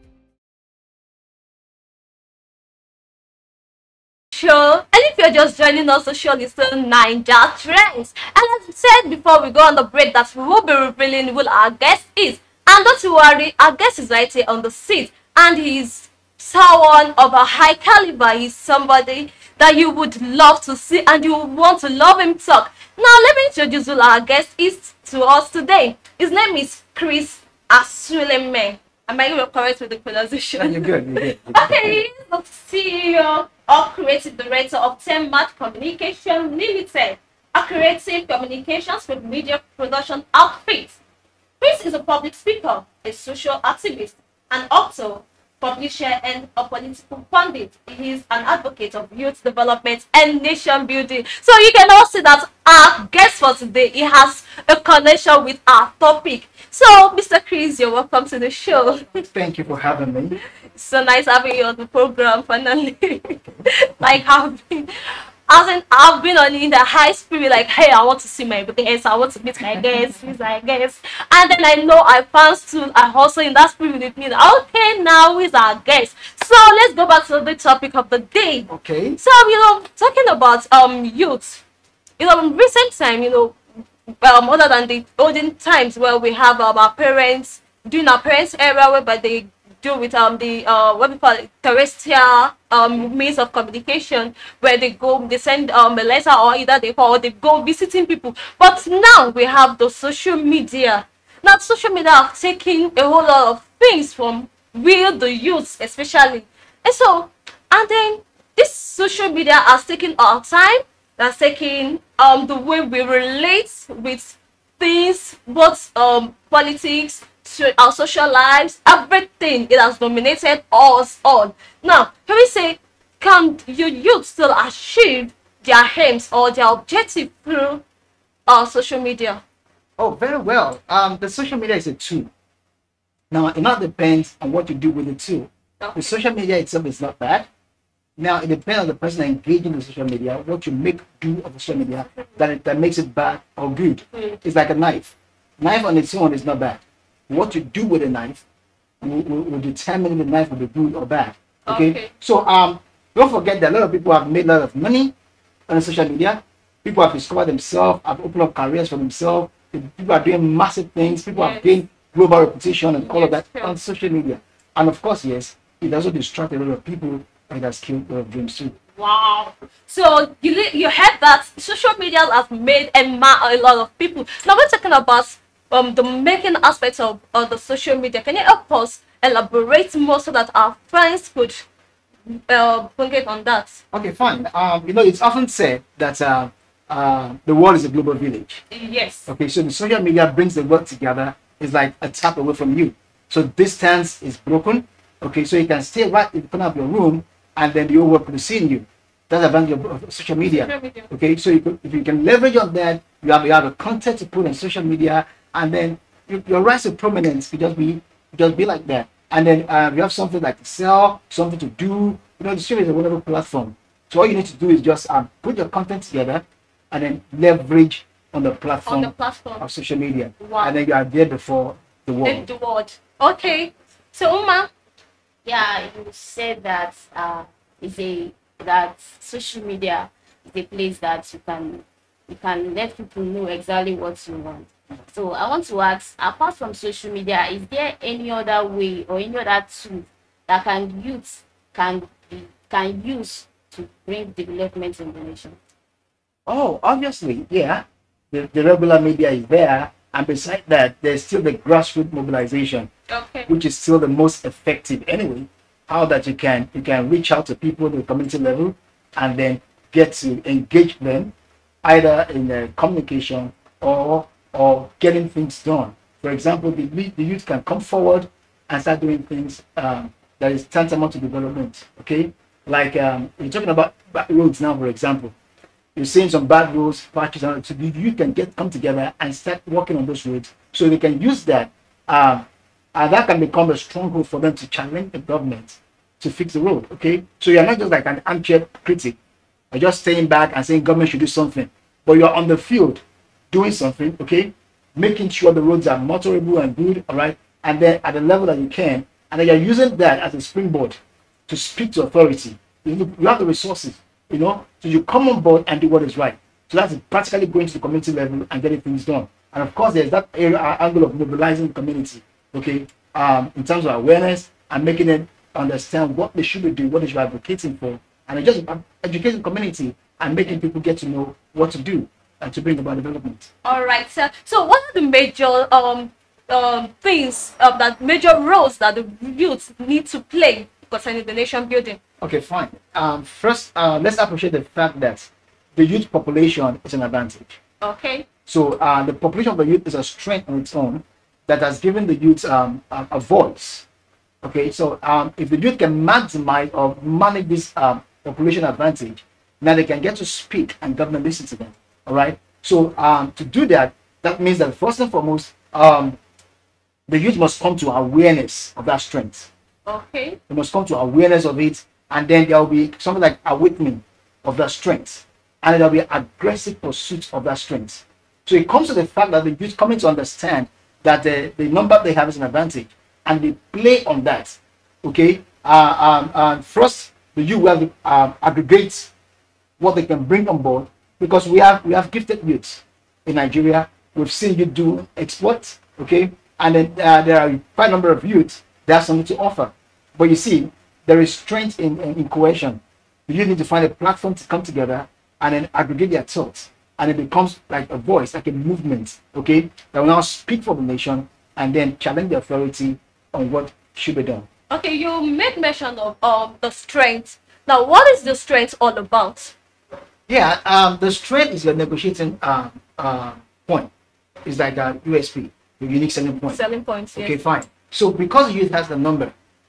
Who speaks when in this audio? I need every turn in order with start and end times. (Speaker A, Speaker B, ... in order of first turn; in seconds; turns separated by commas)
Speaker A: 4.3-41.0, Speaker B: 30.6-32.0, Speaker A: 41.6-59.1, Speaker B: 59.1-60.4, Speaker A: 60.7-64.9, Speaker A: 65.5-78.7, Speaker B: 78.7-79.2, Speaker A: 79.2-81.6, Speaker A: 82.2-83.6, Speaker A: 84.2-127.8, Speaker A: 128.5-129.4, Speaker B: 130.0-132.3, Speaker B: 133.3-137.5, Speaker A: 135.8-136.1, Speaker B: 138.2-148.4, Speaker B: 149.0-155.1, Speaker A: 151.7-152.1, Speaker B: 155.7-168.8, Speaker A: 161.3-161.7, Speaker A: 163.0-163.8, Speaker A: 169.0-181.7, Speaker A: 182.3-183.8, Speaker B: 183.9-188.6, Speaker A: 188.7-189.3, Speaker B: 189.3-222.5, Speaker A: 200.5-201.1, Speaker A: 218.9-219.7, Speaker A: 220.4-220.8, Speaker A: 222.2-224.7, Speaker C: 225.4-245.6, Speaker B: 246.5-252.9, Speaker A: 253.1-253.5, Speaker B: 253.5-275.3, Speaker B: 275.9-289.2, Speaker B: 289.7-323.5, Speaker A: 323.6-332.0, Speaker B: 332.2-337.6, Speaker A: 337.8-338.3, Speaker B: 338.5-343.9, Speaker B: 344.4-356.2, Speaker B: 357.1-359.5, Speaker A: 359.9-360.4, Speaker B: 360.5-379.1, Speaker B: 379.8-404.5, Speaker A: 404.7-409.6, Speaker B: 410.3-413.9, Speaker B: 414.4-416.6, Speaker A: 416.5-417.4, Speaker B: 417.1-419.3